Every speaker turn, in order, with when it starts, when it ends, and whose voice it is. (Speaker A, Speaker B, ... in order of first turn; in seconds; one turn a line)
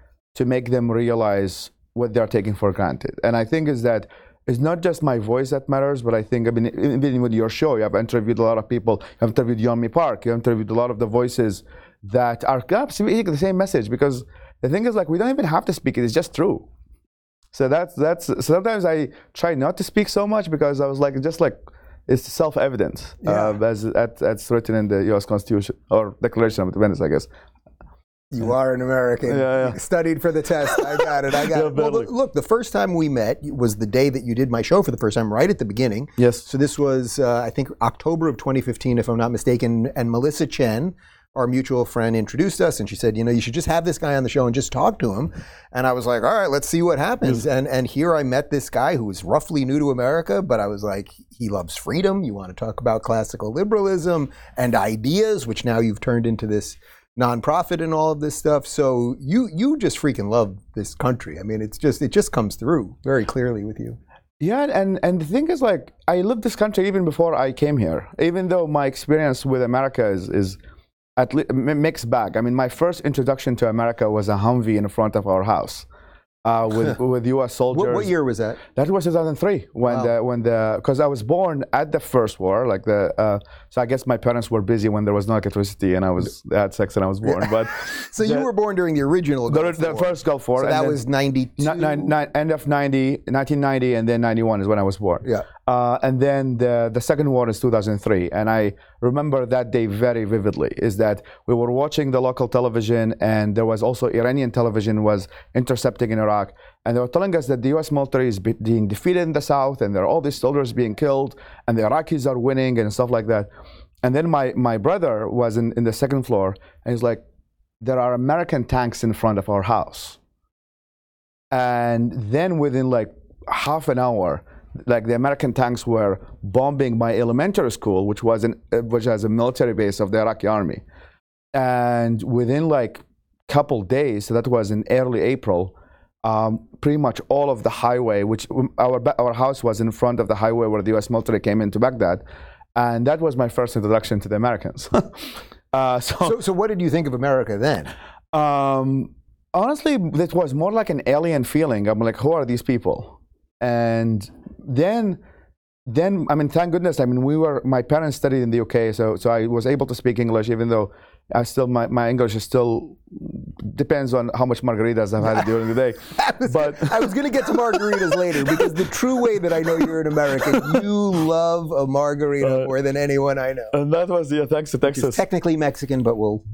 Speaker A: 0.3-16.7
Speaker A: 17.5-21.6
Speaker A: 22.1-27.3
Speaker B: 23.2-23.5
Speaker B: 28.3-64.0
Speaker A: 29.3-29.8
Speaker A: 30.7-32.1
Speaker A: 36.2-36.5
Speaker A: 64.4-70.6
Speaker A: 71.2-75.9
Speaker A: 76.5-78.1
Speaker B: 77.7-78.6
Speaker A: 78.8-88.5
Speaker B: 79.9-80.1
Speaker B: 87.2-92.1
Speaker A: 89.5-91.0
Speaker A: 91.6-113.5
Speaker A: 114.0-117.2
Speaker A: 117.8-120.2
Speaker A: 121.5-130.8
Speaker A: 131.5-135.7
Speaker A: 136.2-142.2
Speaker A: 142.8-146.4
Speaker B: 146.2-147.9
Speaker A: 148.3-155.2
Speaker A: 155.9-167.1
Speaker B: 165.2-165.5
Speaker B: 166.2-173.8
Speaker A: 170.5-170.8
Speaker A: 172.4-172.7
Speaker A: 173.7-175.2
Speaker B: 174.9-176.4